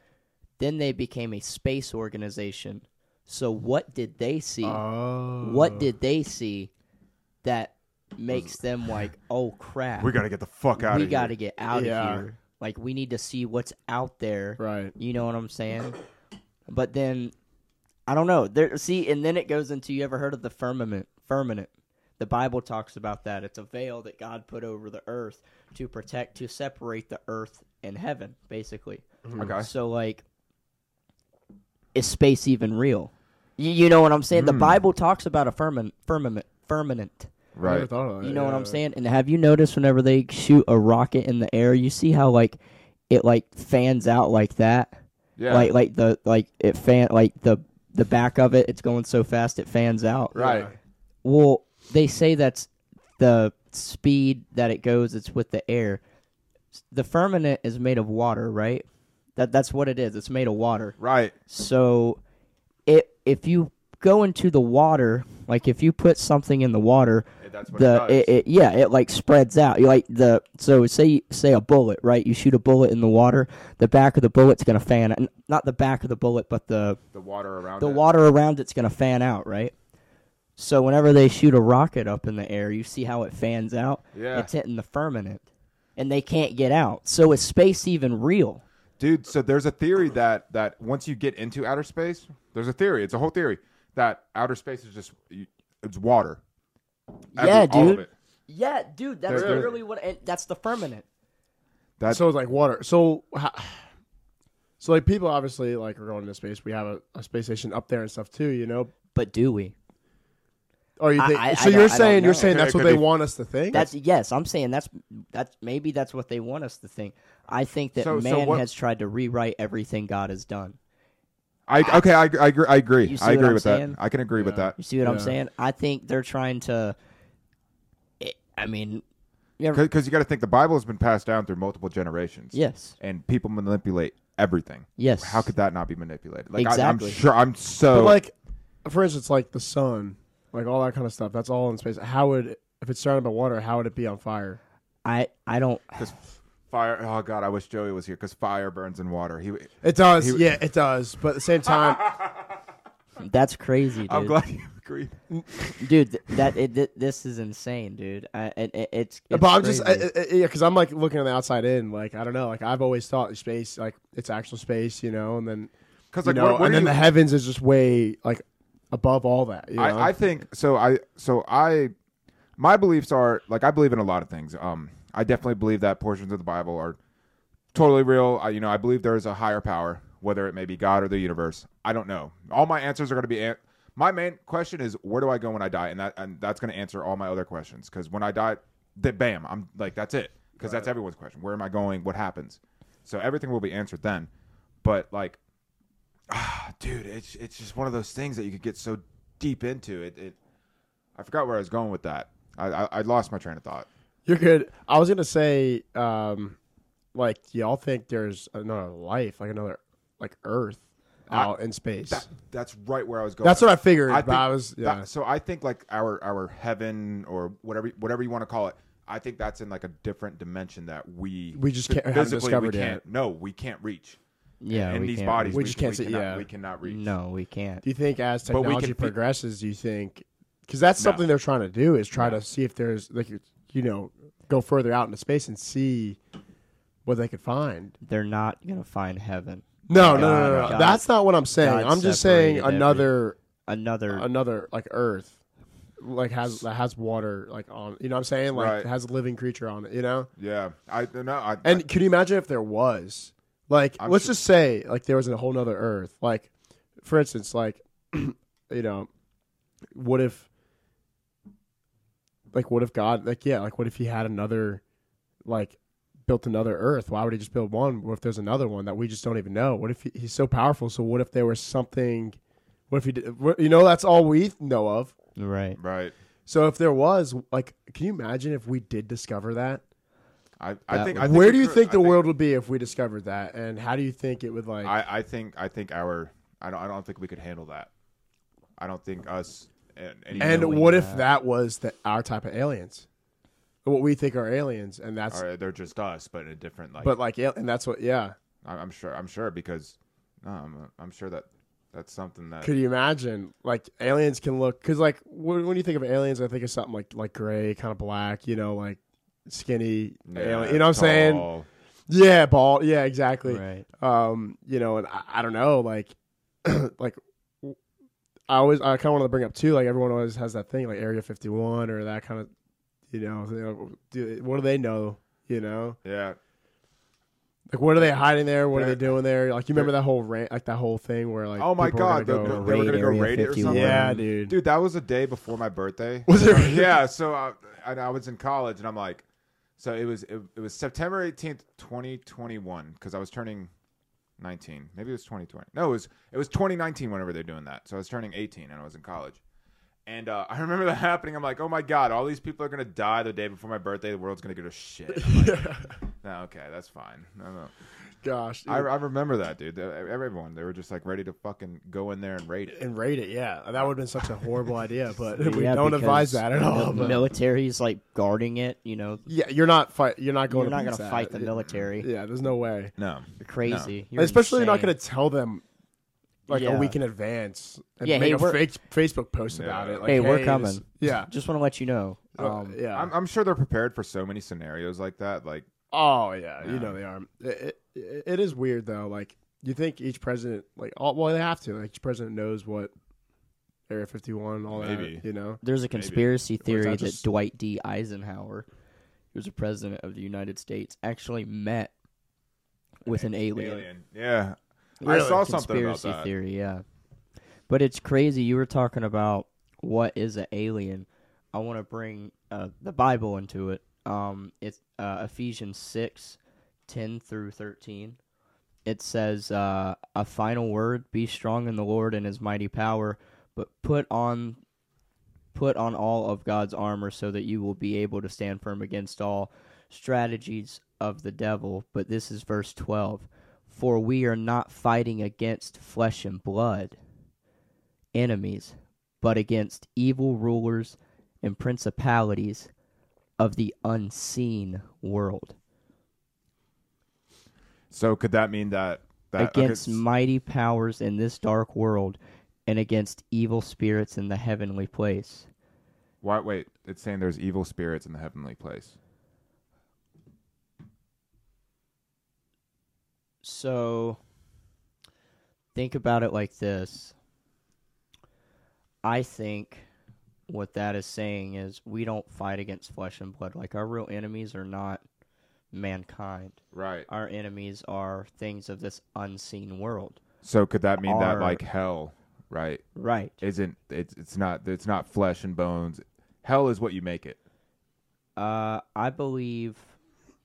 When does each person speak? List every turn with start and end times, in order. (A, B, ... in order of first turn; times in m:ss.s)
0:00.6-0:04.8 A
0:04.6-0:05.9 B
0:05.4-0:06.7 A
0:07.4-0:10.2 A
0:08.3-0:08.6 C
0:10.0-0:11.3 C
0:10.7-0:16.0 A
0:11.7-0:12.2 B
0:14.6-0:14.9 B
0:16.7-0:17.3 A
0:18.1-0:30.2 A
0:29.2-0:29.5 B
0:29.4-0:29.7 C
0:31.9-0:37.3 A
0:34.3-0:34.8 C
0:37.5-0:37.9 C
0:37.6-0:38.8 B
0:38.2-0:42.6 A
0:43.1-0:50.4 A
0:45.4-0:45.7 C
0:50.3-0:50.7 C
0:50.3-0:50.7 B
0:51.2-0:56.0 A
0:56.9-0:58.8 A
0:59.4-1:01.0 A
1:01.0-1:01.3 C
1:01.5-1:02.2 A
1:02.9-1:17.0 A
1:07.4-1:08.3 C
1:17.1-1:18.0 C
1:17.8-1:19.7 A
1:20.6-1:25.4 A
1:24.1-1:24.5 C
1:26.0-1:28.6 A
1:29.0-1:36.4 C
1:37.3-1:41.0 A
1:37.4-1:38.1 C
1:39.3-1:39.7 C
1:39.3-1:39.7 B
1:42.1-1:43.9 B
1:44.8-1:48.9 B
1:49.1-1:49.7 A
1:51.0-1:53.9 B
1:51.2-1:52.6 A
1:52.3-1:53.1 C
1:53.7-2:00.8 A
1:58.0-1:58.6 C
2:01.7-2:04.8 C
2:03.0-2:07.0 A
2:05.0-2:05.4 B
2:08.2-2:09.0 A
2:09.7-2:18.2 C
2:12.5-2:13.0 A
2:15.0-2:15.5 A
2:16.6-2:17.2 A
2:17.9-2:18.3 B
2:18.8-2:24.6 B
2:25.0-2:26.0 A
2:26.0-2:30.5 C
2:29.8-2:32.1 B
2:31.7-2:32.5 C
2:33.2-2:34.4 A
2:34.1-2:36.4 C
2:35.8-2:40.1 A
2:39.3-2:45.7 B
2:46.1-2:47.0 C
2:46.2-2:50.1 B
2:49.8-2:51.9 C
2:52.6-2:57.0 C
2:57.7-3:14.3 C
3:10.6-3:10.9 B
3:14.8-3:15.4 C
3:16.3-3:20.4 C
3:21.2-3:23.9 C
3:24.2-3:26.6 B
3:27.1-3:32.2 B
3:31.3-3:31.5 C
3:32.1-3:44.2 C
3:33.4-3:35.1 B
3:41.5-3:43.0 B
3:44.6-3:45.7 A
3:44.7-3:47.1 C
3:45.5-3:46.4 B
3:46.8-3:47.8 A
3:47.8-3:56.2 B
3:48.5-3:49.1 C
3:51.0-3:51.2 C
3:57.0-3:58.0 B
3:58.0-4:01.0 A
3:59.9-4:03.4 B
3:59.9-4:00.8 C
4:01.6-4:03.1 A
4:03.6-4:04.3 A
4:04.1-4:05.4 B
4:06.0-4:10.3 B
4:08.5-4:08.9 C
4:10.4-4:11.8 C
4:11.6-4:16.5 B
4:14.0-4:14.3 C
4:17.0-4:19.1 B
4:19.9-4:20.5 B
4:22.5-4:24.8 B
4:25.4-4:32.4 B
4:32.9-4:35.2 B
4:35.4-4:35.8 A
4:35.8-4:36.1 C
4:36.5-4:39.8 B
4:40.6-4:42.2 C
4:40.9-4:41.2 A
4:40.9-4:44.9 B
4:44.8-4:47.9 C
4:48.8-4:50.9 C
4:50.3-4:51.3 A
4:50.4-4:53.0 B
4:53.8-4:55.4 B
4:55.3-4:57.2 C
4:57.0-4:58.4 B
4:58.6-5:02.7 C
5:02.6-5:11.5 B
5:10.3-5:11.7 C
5:12.1-5:17.8 B
5:13.4-5:13.8 A
5:18.5-5:22.5 B
5:23.1-5:26.0 B
5:26.0-5:26.4 C
5:27.7-5:33.0 B
5:28.7-5:29.0 C
5:31.6-5:39.2 C
5:32.3-5:34.2 A
5:33.6-5:34.5 B
5:36.3-5:37.0 B
5:39.8-5:43.7 C
5:44.4-5:49.4 C
5:50.1-5:55.6 C
5:55.1-5:56.0 B
5:56.2-5:57.7 C
5:58.2-5:58.9 B
5:58.7-6:02.8 C
6:02.7-6:07.3 B
6:05.3-6:09.2 A
6:09.3-6:12.9 B
6:10.5-6:12.1 A
6:13.0-6:13.9 C
6:13.4-6:14.9 A
6:14.2-6:15.6 B
6:16.5-6:21.3 B
6:16.5-6:17.0 A
6:18.0-6:18.6 A
6:19.5-6:20.1 C
6:20.0-6:22.8 A
6:22.4-6:23.1 B
6:22.9-6:25.6 C
6:25.9-6:32.9 B
6:26.6-6:27.0 C
6:33.9-6:35.6 B
6:34.7-6:35.2 C
6:35.6-6:38.7 A
6:35.9-6:36.3 C
6:36.6-6:37.2 B
6:39.3-6:41.9 A
6:43.0-6:43.9 A
6:43.0-6:46.3 C
6:45.0-6:46.8 A
6:47.7-6:58.2 A
6:58.8-7:04.6 A
7:05.5-7:17.0 A
7:18.1-7:22.7 A
7:23.4-7:25.6 A
7:27.9-7:30.0 C
7:29.4-7:35.5 A
7:36.2-7:39.0 C
7:43.4-7:44.2 A
7:45.7-7:47.1 A
7:49.0-7:49.8 A
7:50.5-7:55.0 A
7:55.7-8:00.2 A
7:56.7-7:57.1 C
8:00.4-8:02.8 C
8:01.0-8:01.6 A
8:02.9-8:03.4 A
8:03.4-8:07.4 C
8:08.4-8:09.9 A